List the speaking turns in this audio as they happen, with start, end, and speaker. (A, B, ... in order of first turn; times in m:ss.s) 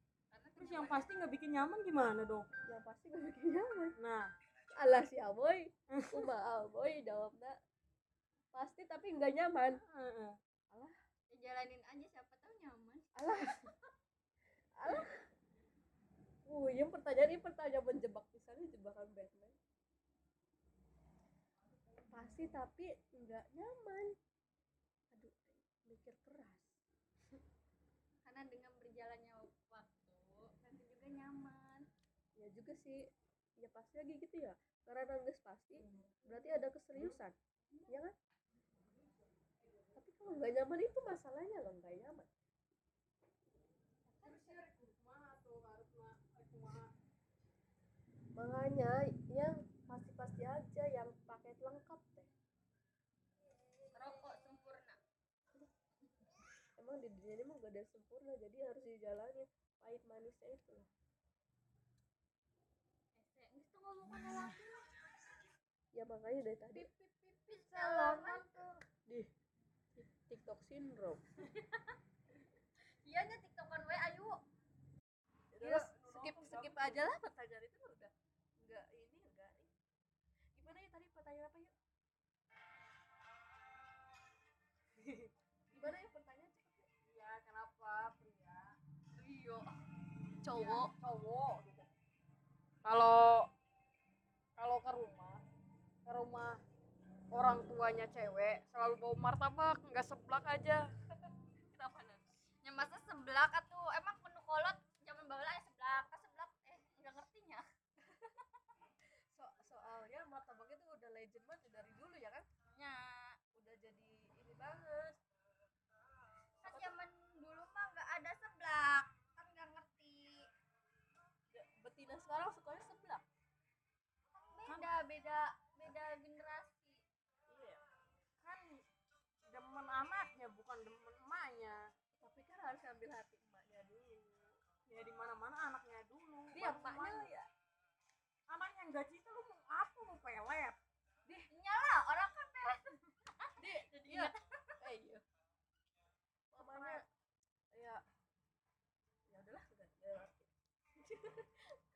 0:00.3-0:01.1 A
0:00.6-0:02.5 B
0:02.6-0:04.0 C
0:04.0-0:04.3 B
0:04.7-0:07.6 C
0:05.9-0:06.3 B
0:08.5-0:09.8 C
0:09.9-0:10.4 B
0:11.3-0:13.7 A
0:13.2-0:13.7 C
0:14.8-0:15.2 C
0:16.4-0:19.6 C
0:22.1-0:24.2 C
0:25.1-0:26.7 C
0:28.2-0:31.9 A
0:32.4-0:33.0 C
0:33.6-0:37.4 C
0:37.9-0:38.1 C
0:39.9-0:42.3 C
0:44.0-0:44.6 A
0:44.2-0:46.9 B
0:48.3-0:52.3 C
0:53.9-0:55.0 A
0:56.8-1:00.9 C
1:03.2-1:05.0 A
1:05.9-1:06.9 C
1:06.8-1:08.8 B
1:07.5-1:08.7 A
1:09.0-1:09.3 C
1:10.0-1:11.2 C
1:11.4-1:12.0 A
1:13.0-1:14.4 A
1:15.5-1:19.7 C
1:15.6-1:17.0 B
1:20.6-1:21.7 C
1:25.0-1:25.3 B
1:25.7-1:26.9 C
1:27.0-1:28.8 B
1:29.2-1:29.7 A
1:30.4-1:30.9 C
1:30.5-1:31.9 B
1:32.8-1:33.5 B
1:34.6-1:35.4 B
1:36.0-1:36.6 B
1:37.3-1:40.9 B
1:41.7-1:47.6 A
1:49.3-1:52.4 C
1:52.7-1:53.4 A
1:53.5-1:55.2 C
1:56.6-1:56.9 C
1:56.6-2:00.5 A
2:01.5-2:03.2 C
2:04.5-2:07.0 A
2:04.6-2:04.9 B
2:07.5-2:07.8 C
2:08.4-2:08.8 B
2:09.5-2:11.8 B
2:12.2-2:14.6 C
2:14.9-2:17.3 B
2:16.5-2:17.5 C
2:18.5-2:20.8 B
2:21.5-2:24.8 A
2:23.6-2:25.2 C
2:26.5-2:27.0 C
2:26.7-2:27.0 B
2:27.7-2:28.0 C
2:29.3-2:31.8 C